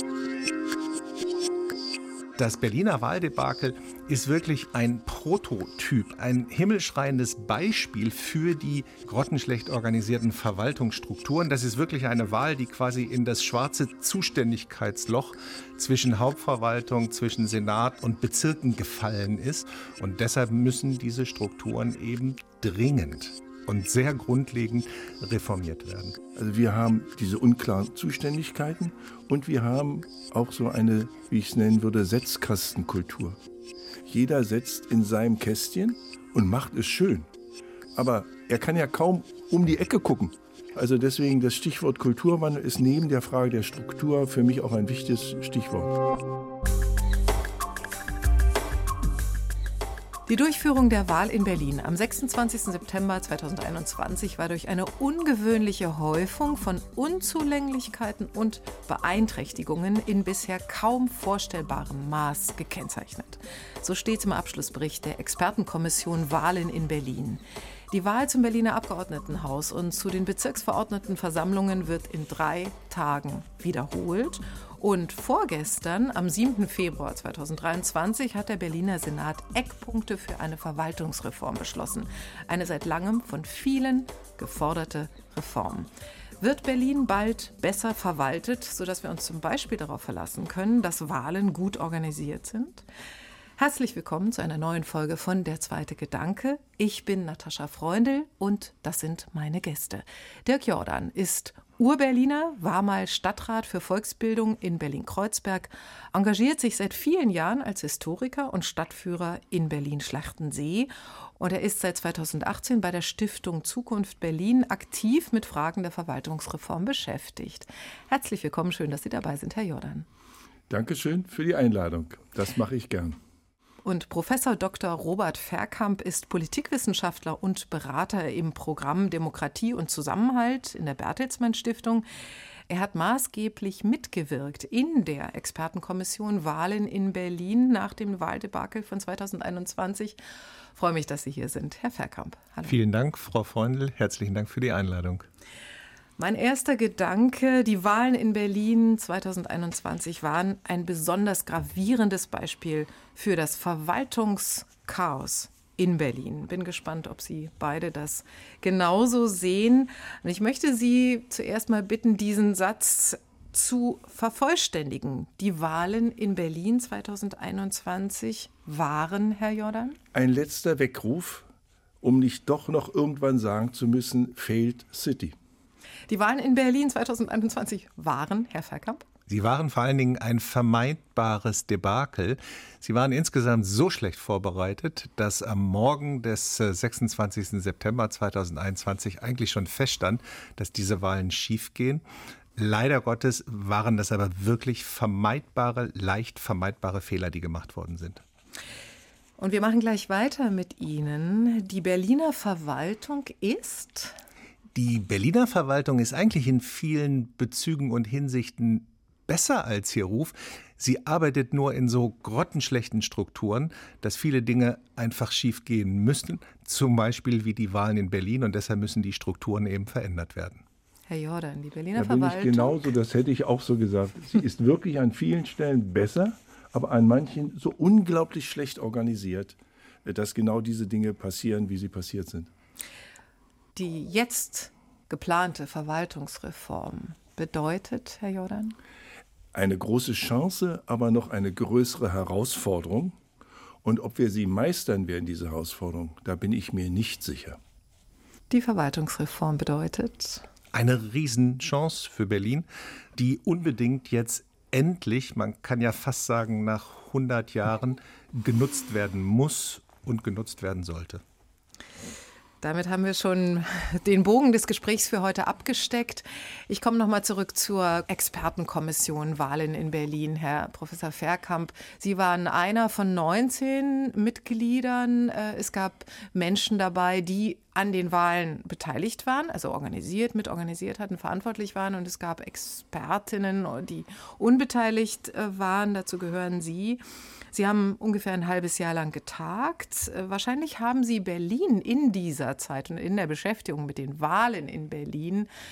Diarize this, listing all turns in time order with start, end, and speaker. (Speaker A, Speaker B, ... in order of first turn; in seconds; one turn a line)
Speaker A: 2.4-26.2
Speaker B: 26.3-33.4
Speaker B: 34.0-37.3
Speaker B: 38.0-45.9
Speaker C: 50.3-92.8
Speaker C: 93.6-120.1
Speaker B: 120.7-123.2
Speaker C: 123.8-132.0
Speaker C: 132.7-140.2
Speaker C: 140.7-142.7
Speaker A: 142.6-145.2
Speaker C: 146.2-170.0
Speaker B: 170.1-171.4
Speaker B: 172.0-175.3
Speaker C: 176.1-179.0
Speaker A: 179.3-192.0
Speaker A: 192.6-198.2
Speaker C: 199.4-204.2
Speaker A: 204.7-220.6
Speaker C: 221.1-222.8
Speaker B: 221.9-232.5
Speaker C: 233.7-238.8
Speaker B: 239.5-243.1
Speaker B: 243.8-247.6
Speaker C: 248.5-250.4
Speaker A: 250.7-261.2
Speaker C: 262.6-287.0
Speaker C: 287.5-295.5